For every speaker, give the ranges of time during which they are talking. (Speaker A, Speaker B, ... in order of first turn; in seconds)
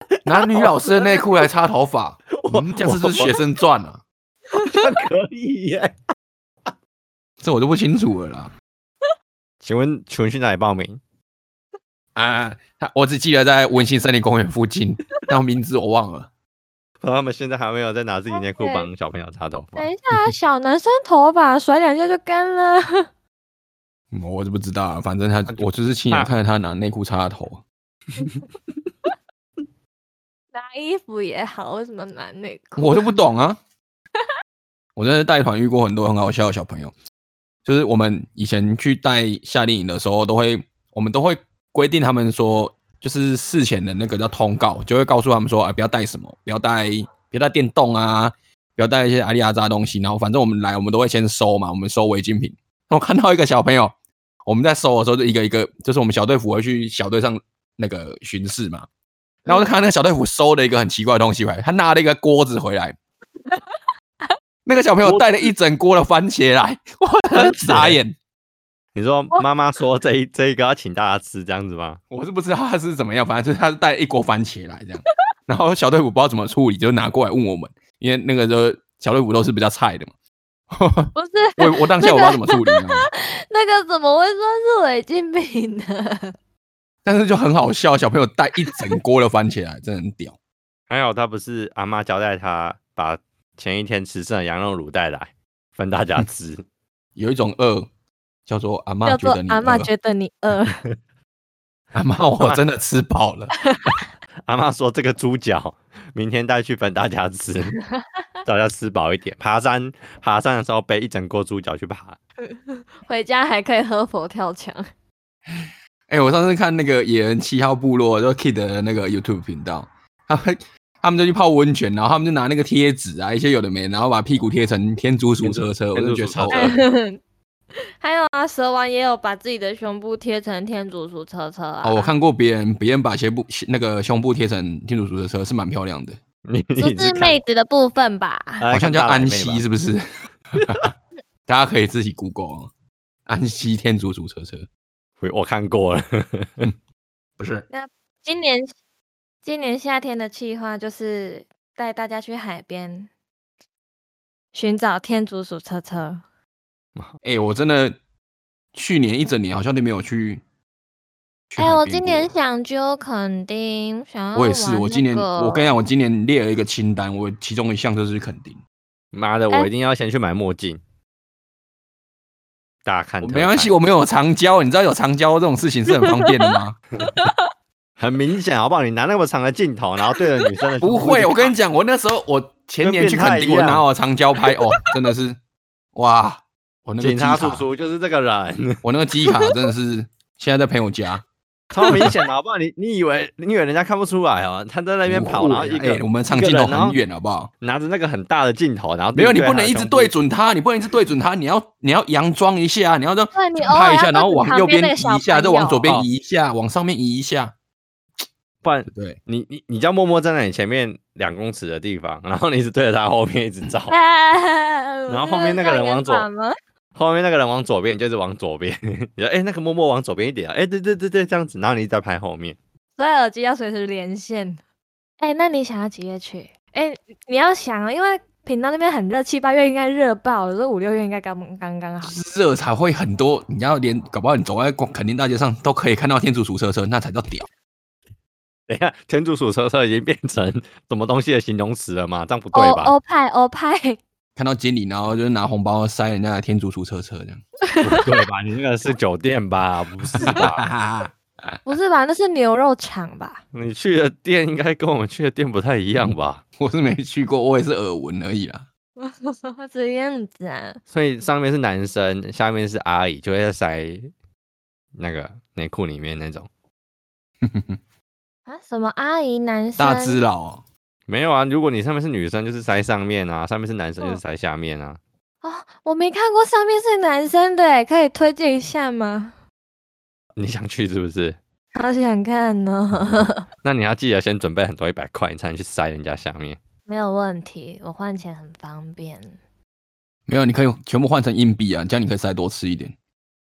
Speaker A: 0.2-4.0, 7.4-8.5, 12.2-16.3, 24.1-27.6, 32.8-33.6, 35.0-36.9, 37.6-53.9, 54.5-58.9, 59.5-63.0, 64.7-68.2, 72.1-80.1, 80.7-83.1, 87.0-90.4, 97.2-97.9, 98.5-99.9, 101.9-103.5, 115.5-126.8, 131.8-136.2, 138.7-140.0, 140.6-140.9, 141.5-142.7, 143.3-144.7, 147.4-147.7, 157.2-157.9, 158.7-160.4, 161.5-162.3, 164.3-168.6, 173.2-176.8, 180.8-185.4, 185.9-187.7, 188.8-191.2, 195.1-197.5, 199.2-207.5, 208.9-209.2, 232.0-237.5, 244.4-247.4, 250.2-251.6, 256.0-258.7, 267.4-267.8, 269.8-270.6, 290.3-292.9
Speaker B: 0.5-0.7, 2.3-3.4, 4.6-6.0, 9.6-11.0, 17.0-19.9, 25.5-26.3, 67.3-68.0, 69.0-72.0, 90.9-96.6, 104.5-107.8, 108.5-112.2, 125.4-126.8, 136.4-137.4, 138.6-139.6, 140.6-140.9, 145.2-146.7, 169.1-170.8, 172.8-173.7, 178.0-181.5, 182.8-183.8, 187.0-188.8, 191.7-197.0, 197.6-200.1, 208.6-214.0, 215.1-216.3, 216.9-222.6, 238.7-243.0, 247.8-250.7, 253.5-256.4, 260.9-264.1, 264.9-266.5, 271.1-275.0, 280.4-281.4, 283.6-286.6
Speaker C: 18.3-18.9, 19.8-23.1, 30.5-33.2, 81.2-86.3, 99.0-100.8, 103.6-104.0, 112.5-114.8, 126.5-127.2, 128.0-132.1, 136.8-138.7, 147.7-148.7, 149.4-153.1, 154.5-156.2, 161.6-165.7, 175.9-177.5, 189.2-189.6, 203.3-205.8, 213.9-216.5, 223.0-224.6, 225.2-232.2, 242.5-244.0, 247.7-248.1, 251.7-253.4, 259.0-260.8, 268.5-270.2, 275.4-279.3, 281.7-283.4, 286.9-289.4